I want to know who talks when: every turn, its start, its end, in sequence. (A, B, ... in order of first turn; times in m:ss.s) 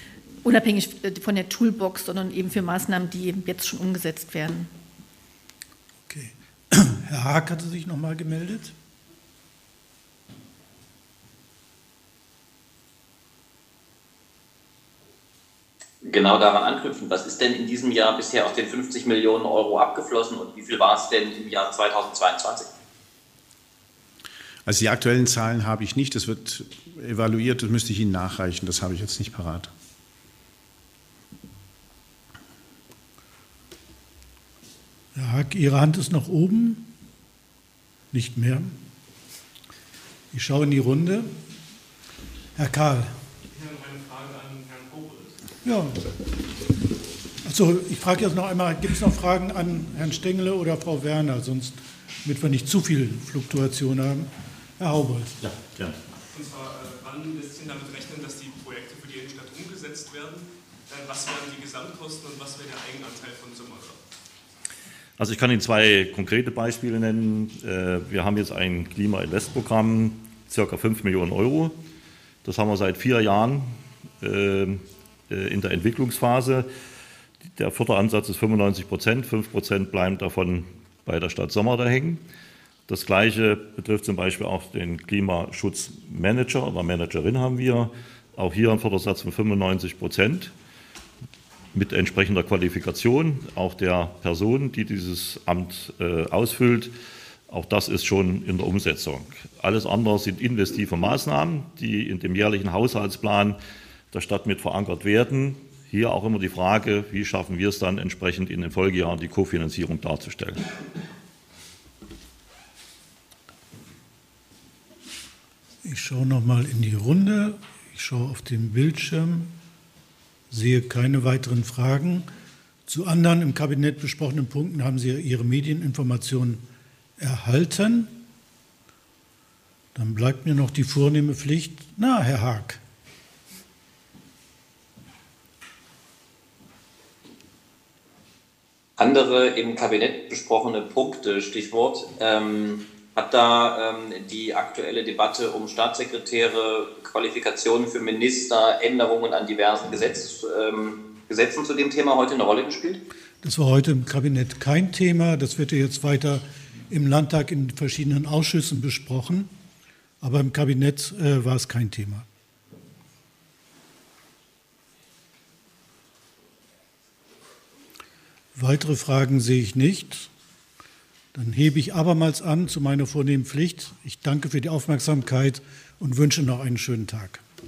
0:00.4-0:04.7 A
0:06.1-0:08.7 B
0:16.0-0:22.7 C
0:24.7-0:29.7 D
0:35.2-0:36.9 B
0:38.1-0:38.8 B
0:40.3-0:41.3 B
0:42.6-0:43.2 B
0:43.5-0:45.4 E
0:45.6-0:46.0 B
0:47.4-0:55.4 B
0:55.4-0:56.0 F
0:56.3-1:04.0 E
1:05.2-1:11.8 F
1:12.4-1:13.7 F
1:14.2-1:16.7 F
1:17.6-1:22.2 F
1:22.9-1:30.5 F
1:31.7-1:36.9 F
1:37.5-1:43.6 F
1:44.1-1:50.6 F
1:55.8-1:59.5 B
2:00.5-2:02.3 B
2:02.9-2:06.6 B
2:07.2-2:08.2 B
2:10.0-2:12.8 B
2:19.0-2:33.0 C
2:33.4-2:39.5 B
2:40.2-2:42.3 B
2:48.6-2:50.3 B
2:51.3-2:57.4 B